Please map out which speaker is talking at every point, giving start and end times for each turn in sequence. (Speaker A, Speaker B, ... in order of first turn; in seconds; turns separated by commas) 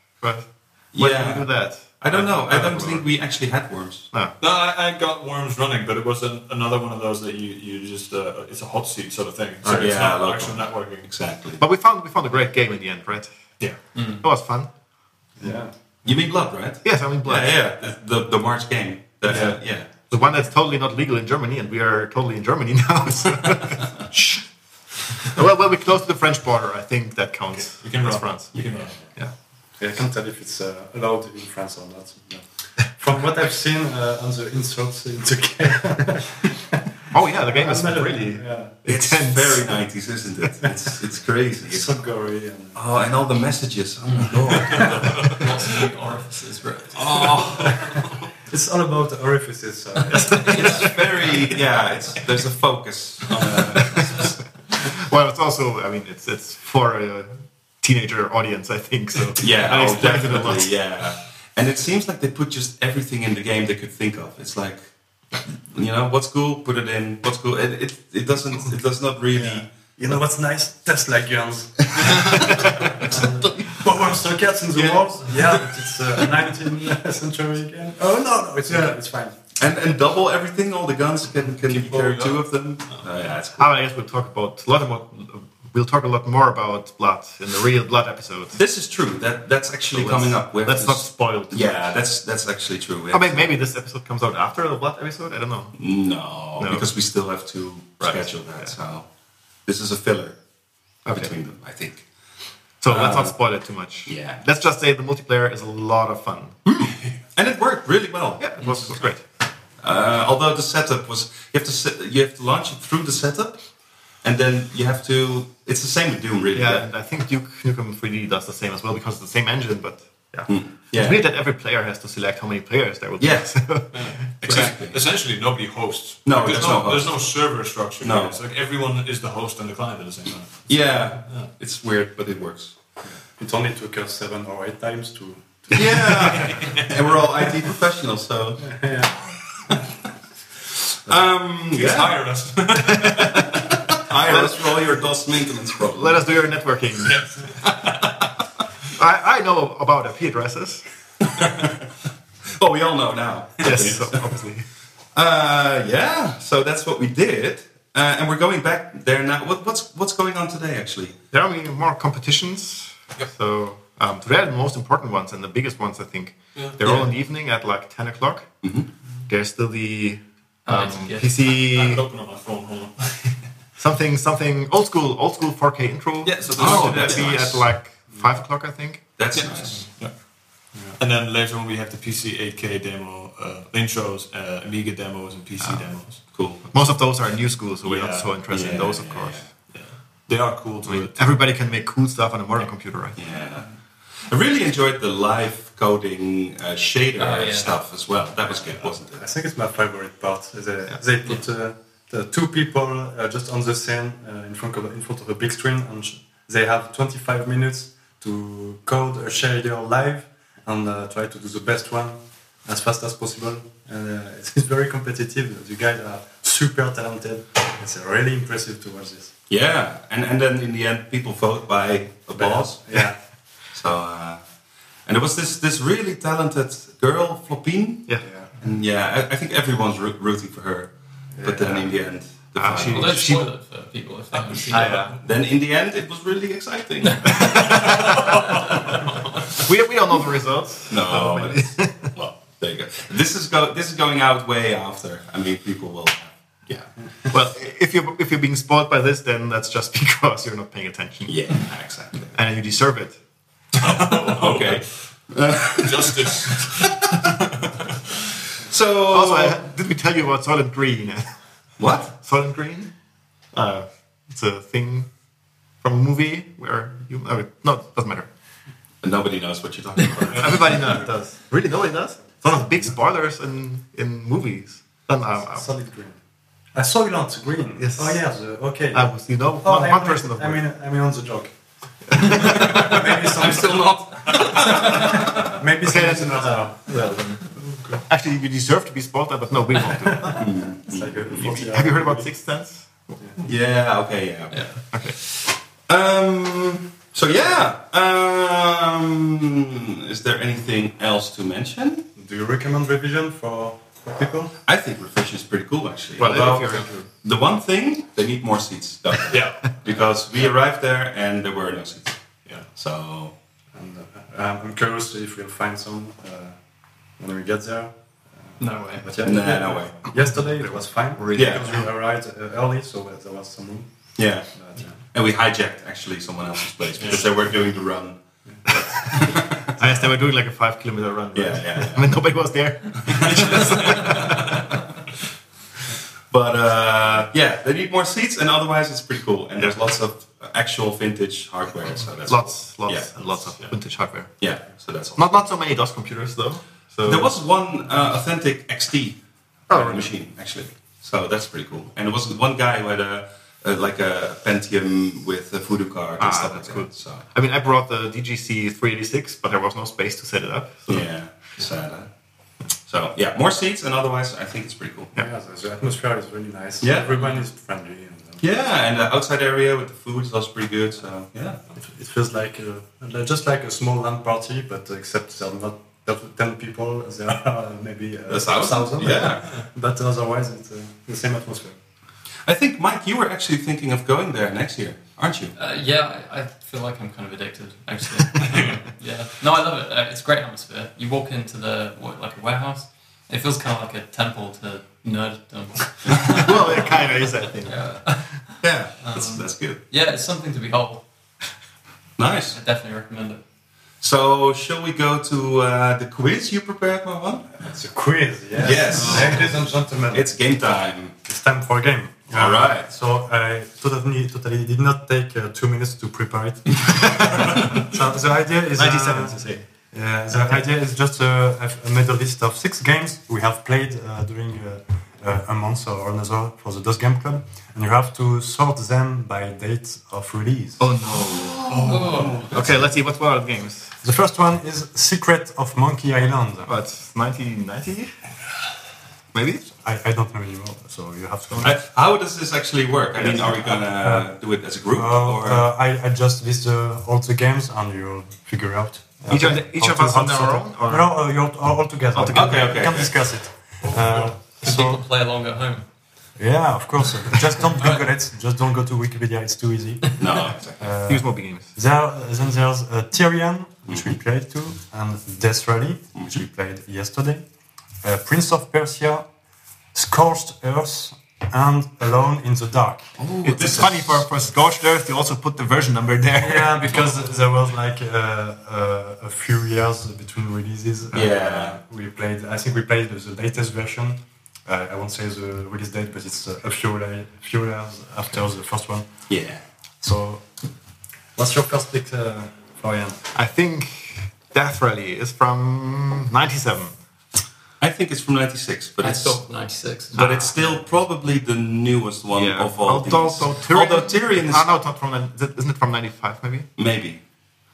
Speaker A: 0.2-3.1, Speaker B: 0.9-4.1, Speaker C: 4.4-11.1, Speaker B: 9.6-11.6, Speaker A: 11.6-13.3, Speaker D: 13.9-14.2, Speaker A: 14.2-14.7, Speaker E: 15.4-15.7, Speaker B: 16.1-19.9, Speaker A: 16.8-17.6, Speaker A: 19.3-24.4, Speaker E: 19.3-19.5, Speaker A: 25.2-28.6, Speaker C: 27.6-29.1, Speaker E: 29.8-36.8, Speaker A: 37.1-39.8, Speaker E: 37.5-38.8, Speaker B: 38.9-42.0, Speaker E: 41.7-42.8, Speaker B: 42.7-45.4, Speaker D: 44.1-47.6, Speaker E: 44.6-45.1, Speaker C: 44.7-45.4, Speaker B: 47.0-48.1, Speaker E: 48.5-50.9, Speaker A: 50.1-50.9, Speaker D: 50.4-50.9, Speaker B: 50.5-54.4, Speaker A: 53.9-54.2, Speaker A: 54.8-57.3, Speaker A: 57.8-60.8, Speaker B: 59.4-64.8, Speaker B: 65.3-70.2, Speaker E: 69.3-79.3, Speaker B: 72.0-72.5, Speaker B: 78.7-79.0, Speaker B: 79.5-83.7, Speaker C: 81.7-82.4, Speaker A: 83.6-88.6, Speaker B: 88.6-93.5, Speaker A: 89.9-91.9, Speaker A: 93.1-95.8, Speaker B: 95.8-99.1, Speaker A: 96.6-96.9, Speaker A: 98.0-98.3, Speaker B: 99.7-100.4, Speaker A: 101.1-101.3, Speaker B: 101.1-102.0, Speaker A: 102.8-107.0, Speaker B: 102.9-103.3, Speaker B: 104.1-104.4, Speaker B: 107.3-108.9, Speaker A: 108.4-109.2, Speaker B: 109.8-113.7, Speaker B: 114.2-116.8, Speaker A: 116.5-124.7, Speaker B: 120.5-121.2, Speaker B: 123.2-123.5, Speaker C: 123.9-131.5, Speaker B: 124.3-125.0, Speaker B: 126.3-127.2, Speaker B: 128.0-128.4, Speaker B: 130.7-132.8, Speaker E: 133.0-136.5, Speaker B: 135.7-138.8, Speaker C: 136.4-136.9, Speaker E: 138.6-139.2, Speaker B: 141.1-142.2, Speaker C: 141.7-143.5, Speaker B: 143.4-146.3, Speaker A: 144.3-144.7, Speaker A: 145.9-147.2, Speaker C: 147.1-148.2, Speaker A: 149.0-150.8, Speaker B: 151.4-151.7, Speaker B: 152.6-154.2, Speaker A: 153.6-154.6, Speaker B: 155.2-161.2, Speaker A: 161.3-168.5, Speaker B: 168.6-168.9, Speaker A: 169.3-172.0, Speaker D: 170.7-171.3, Speaker C: 171.5-173.4, Speaker A: 173.8-179.0, Speaker C: 176.2-177.6, Speaker B: 176.5-177.6, Speaker B: 179.2-179.8, Speaker C: 179.3-180.2, Speaker C: 181.0-186.3, Speaker B: 186.3-186.7, Speaker A: 186.7-189.4, Speaker C: 187.8-188.4, Speaker B: 188.5-189.5, Speaker C: 189.7-191.3, Speaker A: 190.9-193.2, Speaker B: 193.2-193.7, Speaker B: 194.3-199.3, Speaker D: 197.2-197.8, Speaker E: 199.1-219.3, Speaker B: 219.5-223.0, Speaker E: 222.3-223.2, Speaker B: 223.7-224.4, Speaker B: 225.1-233.3, Speaker E: 228.2-228.5, Speaker E: 231.4-231.9, Speaker A: 232.6-233.5, Speaker D: 232.8-235.1, Speaker C: 234.5-235.2, Speaker A: 234.7-235.1, Speaker B: 235.2-238.6, Speaker A: 237.4-238.2, Speaker C: 237.6-238.4, Speaker A: 239.6-242.1, Speaker B: 240.9-246.9, Speaker A: 247.3-251.5, Speaker B: 251.3-252.3, Speaker A: 252.3-253.2, Speaker C: 253.8-254.8, Speaker B: 253.8-257.2, Speaker C: 255.7-258.0, Speaker B: 258.6-259.6, Speaker A: 259.1-261.3, Speaker B: 261.8-262.1, Speaker A: 262.1-262.9, Speaker A: 263.5-265.1, Speaker A: 265.8-268.3, Speaker B: 269.0-270.9, Speaker A: 270.3-275.7, Speaker E: 275.4-276.2, Speaker E: 276.7-279.1, Speaker A: 277.8-278.3, Speaker A: 278.9-280.6, Speaker E: 279.6-281.6, Speaker E: 282.1-287.2, Speaker A: 282.1-282.9, Speaker B: 283.3-285.1, Speaker C: 284.3-284.8, Speaker A: 285.8-287.5, Speaker A: 288.0-290.5, Speaker E: 290.3-292.3, Speaker B: 290.4-291.6, Speaker A: 291.3-293.2, Speaker B: 293.4-302.1, Speaker E: 302.2-304.5, Speaker B: 304.7-312.2, Speaker A: 306.2-307.1, Speaker C: 309.3-310.1, Speaker B: 312.8-313.3, Speaker E: 313.7-316.6, Speaker E: 317.2-323.9, Speaker D: 318.6-319.4, Speaker B: 319.2-320.1, Speaker A: 320.3-321.9, Speaker B: 321.3-321.7, Speaker B: 324.2-324.5, Speaker E: 324.5-325.0, Speaker B: 325.1-329.9, Speaker C: 327.0-327.3, Speaker A: 329.8-334.7, Speaker B: 331.3-332.1, Speaker B: 333.1-334.2, Speaker C: 333.8-334.4, Speaker B: 336.3-343.1, Speaker A: 342.3-344.3, Speaker B: 344.4-345.5, Speaker A: 345.2-347.3, Speaker B: 347.1-357.2, Speaker A: 349.7-350.1, Speaker A: 356.2-361.1, Speaker B: 360.9-362.1, Speaker B: 362.9-365.1, Speaker E: 365.1-368.4, Speaker B: 366.8-367.2, Speaker B: 368.4-371.6, Speaker E: 371.8-381.8, Speaker B: 378.3-379.6, Speaker B: 382.5-385.6, Speaker D: 385.6-401.0, Speaker A: 396.3-398.1, Speaker A: 398.6-398.9, Speaker B: 399.1-399.8, Speaker B: 402.2-402.6, Speaker D: 402.5-403.4, Speaker B: 404.0-407.6, Speaker E: 407.6-410.4, Speaker B: 408.6-411.1, Speaker C: 409.0-409.3, Speaker E: 411.3-430.9, Speaker B: 412.3-412.9, Speaker A: 418.7-419.6, Speaker A: 420.3-420.6, Speaker A: 430.8-431.9, Speaker B: 431.2-432.8, Speaker C: 431.7-432.4, Speaker D: 431.8-432.5, Speaker A: 432.4-433.9, Speaker E: 434.0-436.7, Speaker A: 436.7-438.1, Speaker A: 439.3-439.6, Speaker E: 439.8-441.8, Speaker B: 441.6-445.7, Speaker A: 443.2-443.6, Speaker E: 443.8-444.3, Speaker E: 444.9-455.0, Speaker A: 449.3-451.2, Speaker A: 452.1-452.9, Speaker B: 452.3-453.2, Speaker D: 453.9-455.8, Speaker E: 456.4-467.5, Speaker B: 460.2-460.9, Speaker A: 461.0-461.7, Speaker B: 463.9-464.2, Speaker E: 468.0-469.3, Speaker E: 469.9-473.1, Speaker B: 473.2-474.3, Speaker A: 473.4-476.9, Speaker E: 476.4-489.1, Speaker B: 481.1-481.8, Speaker B: 489.3-489.6, Speaker E: 490.0-490.5, Speaker E: 491.4-493.3, Speaker A: 493.3-497.0, Speaker B: 497.8-499.4, Speaker D: 499.0-500.8, Speaker B: 500.1-504.7, Speaker A: 502.3-506.7, Speaker B: 506.8-507.2